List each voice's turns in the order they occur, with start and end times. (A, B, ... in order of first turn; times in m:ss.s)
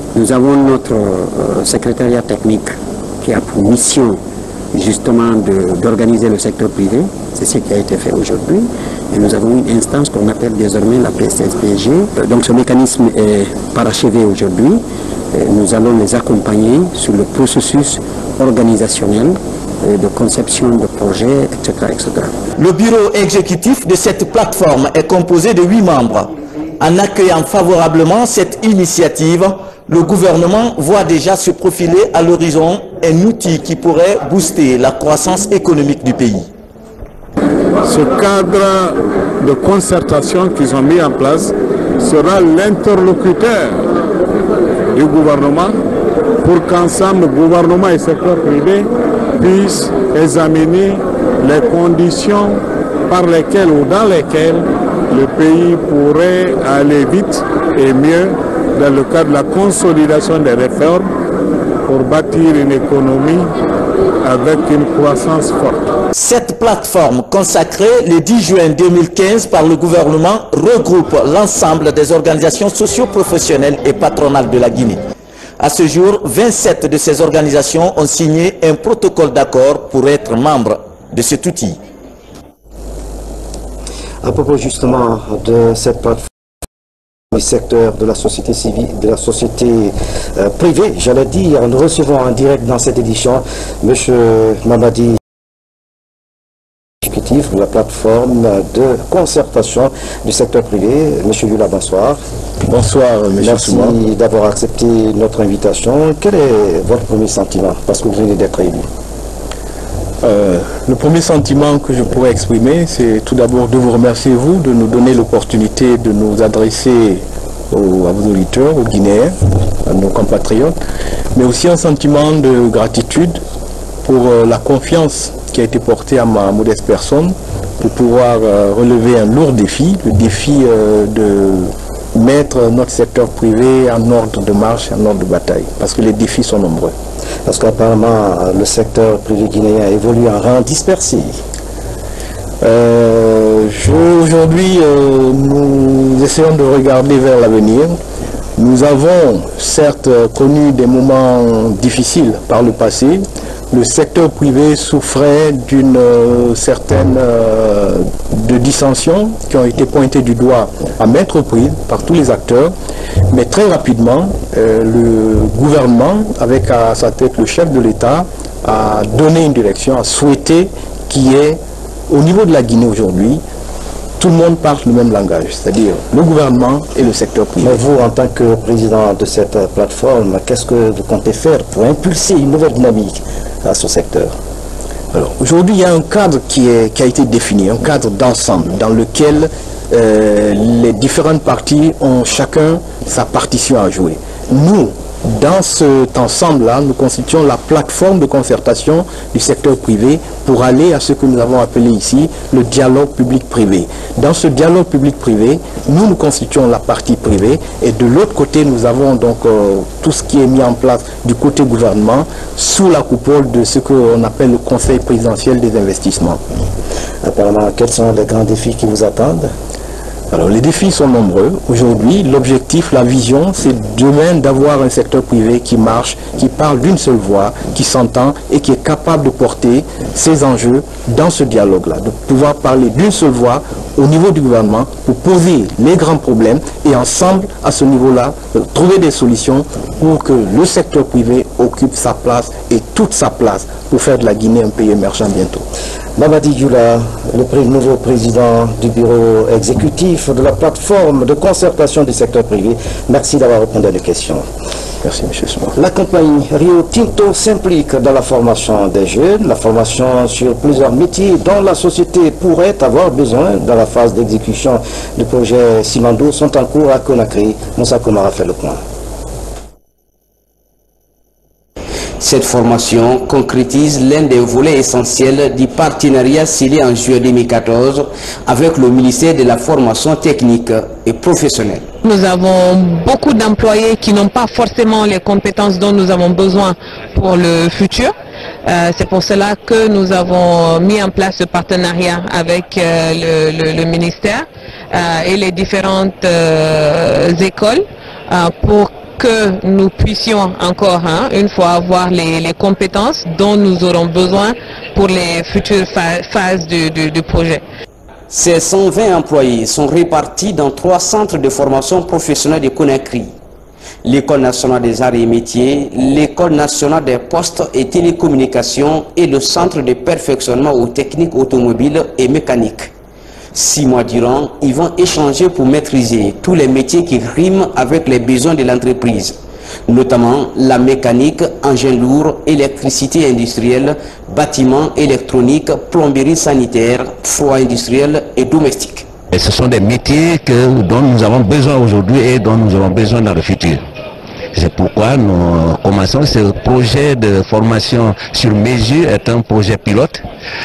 0:00.1-0:04.2 A
0:04.7-0:14.8 A
0:15.3-0:22.3 A
0:22.6-0:36.5 B
0:37.8-0:43.9 C
0:44.9-0:45.8 C
0:46.4-1:01.1 C
1:01.8-1:03.5 C
1:04.2-1:05.9 C
1:06.1-1:15.0 B
1:15.6-1:21.8 B
1:24.2-1:26.2 D
1:27.3-1:35.2 D
1:37.0-1:42.2 D
1:42.7-1:44.0 E
1:43.4-1:48.9 D
1:50.2-2:00.8 E
2:01.3-2:03.4 E
2:04.0-2:16.9 E
2:17.4-2:21.4 D
2:22.6-2:28.0 E
2:28.6-2:42.7 E
2:43.3-2:53.4 E
2:54.2-2:57.8 E
2:57.6-3:04.3 D
3:05.1-3:36.4 E
3:37.2-3:39.5 D
3:40.3-4:05.6 E
4:06.2-4:14.4 D
4:15.0-4:15.8 E
4:15.8-4:28.8 D
4:32.2-4:41.9 F
4:42.0-4:48.1 G
4:48.6-5:07.6 G
5:08.3-5:13.3 F
5:14.0-5:22.9 F
5:23.5-5:39.1 F
5:39.3-5:43.8 H
5:44.5-5:50.2 H